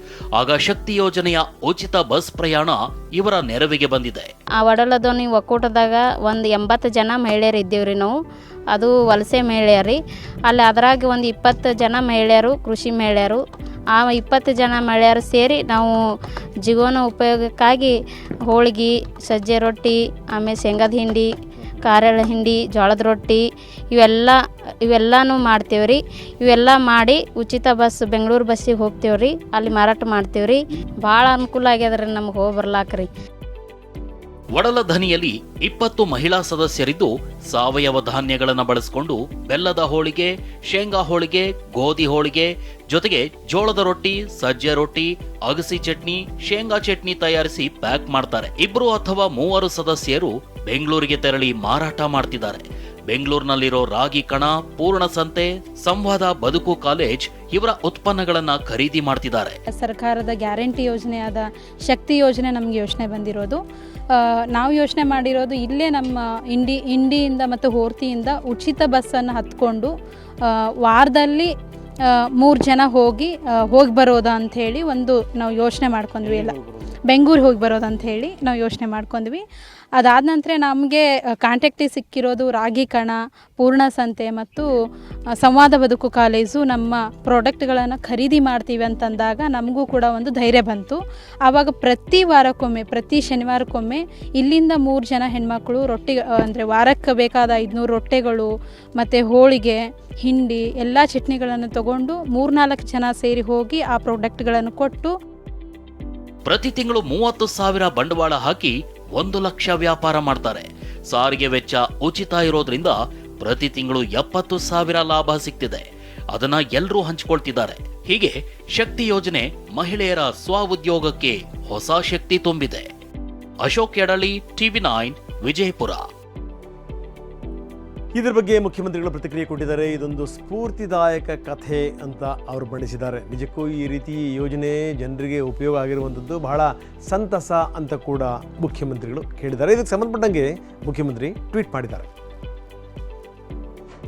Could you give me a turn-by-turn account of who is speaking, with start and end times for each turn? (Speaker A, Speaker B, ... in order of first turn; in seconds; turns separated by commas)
Speaker A: 0.4-4.3, Speaker B: 4.6-8.2, Speaker B: 8.7-13.4, Speaker B: 13.9-16.0, Speaker B: 16.6-17.9, Speaker B: 18.5-33.1, Speaker A: 34.6-59.6, Speaker C: 59.7-63.6, Speaker C: 64.2-69.9, Speaker C: 70.5-71.5, Speaker C: 72.4-76.6, Speaker D: 76.3-76.9, Speaker C: 77.1-79.4, Speaker C: 80.0-84.7, Speaker C: 85.4-98.5, Speaker C: 99.0-105.1, Speaker A: 106.5-122.9, Speaker A: 123.6-126.0, Speaker D: 128.2-142.1